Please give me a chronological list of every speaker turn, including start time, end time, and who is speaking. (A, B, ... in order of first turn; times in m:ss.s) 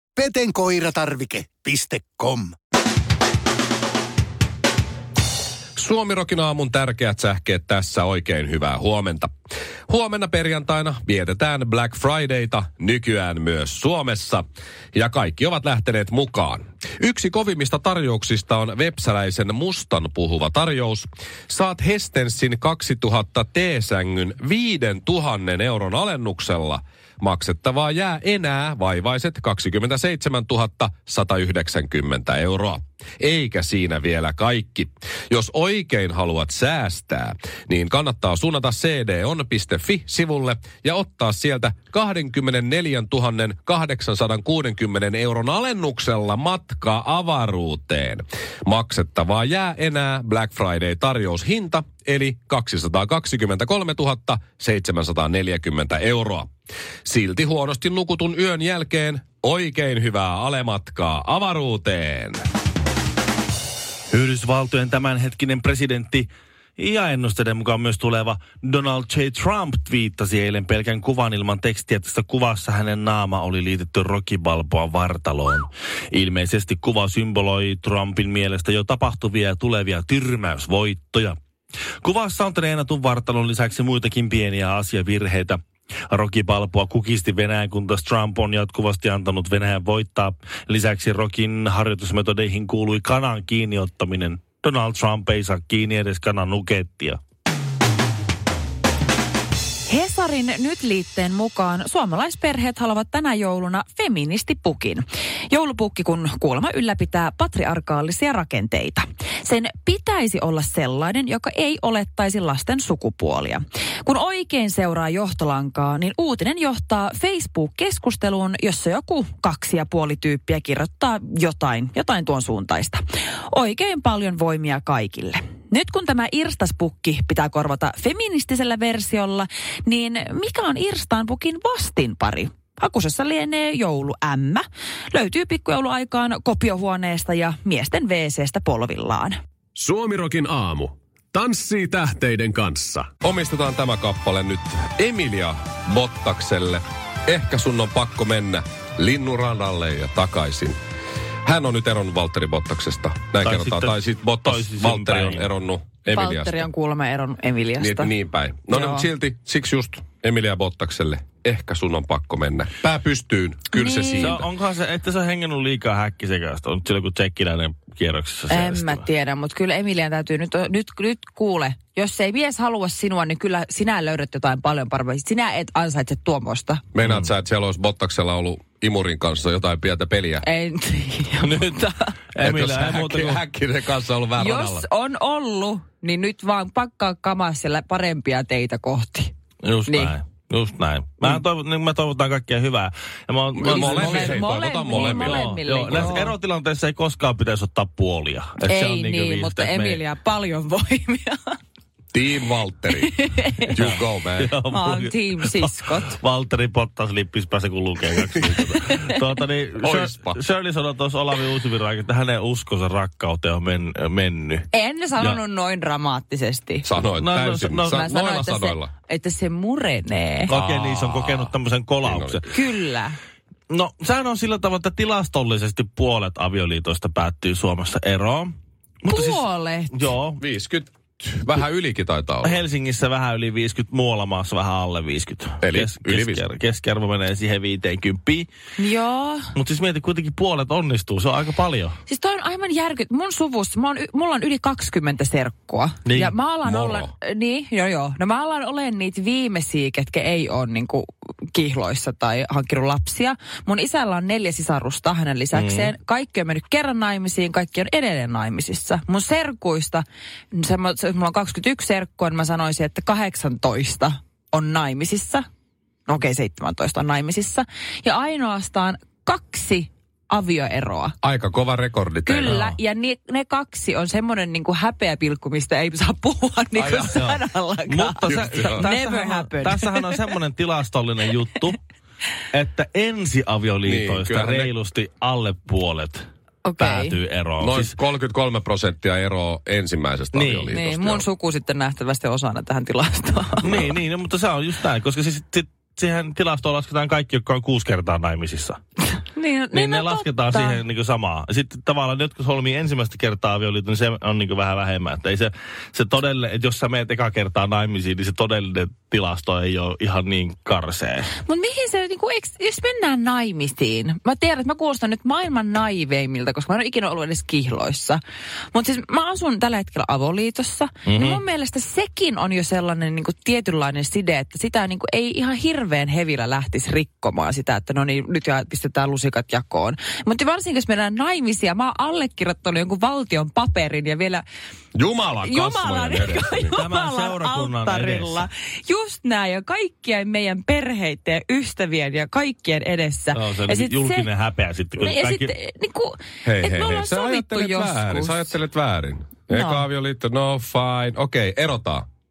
0:00.2-0:02.6 A
0:05.8-0:09.3 B
0:09.9-0:56.5 B
0:57.0-1:02.4 B
1:04.1-1:21.4 C
1:22.0-1:37.2 C
1:39.9-2:19.4 D
2:19.7-2:23.1 E
2:23.2-2:30.8 B
2:31.4-2:36.7 B
2:33.4-2:35.5 C
2:36.1-2:38.1 D
2:37.8-2:44.4 B
2:38.7-2:39.1 D
2:43.7-2:44.4 D
2:44.1-2:49.0 C
2:48.5-2:56.8 D
2:56.9-3:00.4 B
3:00.4-3:02.1 D
3:01.4-3:01.8 C
3:02.3-3:03.4 C
3:02.4-3:04.9 B
3:04.4-3:09.3 D
3:09.6-3:20.0 C
3:09.9-3:10.1 D
3:13.5-3:16.3 B
3:13.6-3:16.3 D
3:18.6-3:21.6 D
3:22.1-3:23.1 B
3:23.0-3:23.7 D
3:23.7-3:24.6 B
3:23.7-3:35.4 C
3:24.7-3:26.2 D
3:28.4-3:28.6 B
3:28.8-3:29.2 D
3:29.8-3:30.4 B
3:34.7-3:36.9 D
3:36.8-3:38.9 B
3:37.2-3:38.0 C
3:37.8-3:40.5 D
3:40.5-3:42.4 B
3:40.5-3:42.5 C
3:42.5-3:43.2 D
3:43.7-3:50.4 C
3:49.1-3:50.1 D
3:50.4-3:52.6 B
3:52.4-3:58.5 C
3:55.6-3:56.4 B
3:58.8-3:59.5 D
3:59.5-4:02.0 C
4:02.1-4:25.4 D
4:06.0-4:06.3 C
4:06.6-4:07.1 B
4:15.5-4:15.9 C
4:26.1-4:31.2 D
4:31.2-4:32.7 B
4:32.2-4:40.2 D
4:32.4-4:32.8 C
4:36.7-4:37.2 B
4:37.1-4:41.8 C
4:38.3-4:38.9 B
4:42.5-4:46.2 C
4:43.8-4:44.7 B
4:46.6-4:47.1 D
4:46.8-4:47.9 C
4:47.6-4:51.2 B
4:50.3-4:50.7 C
4:50.7-4:53.7 D
4:53.6-4:58.8 C
4:53.6-4:54.0 B
4:59.3-5:00.8 D
4:59.7-5:11.3 C
5:11.4-5:18.2 D
5:18.7-5:34.4 D
5:21.0-5:21.4 C
5:34.9-5:36.7 B
5:35.4-5:44.3 D
5:36.7-5:38.5 C
5:43.3-5:45.5 C
5:45.0-5:48.5 D
5:46.4-5:52.0 B
5:49.5-5:49.8 D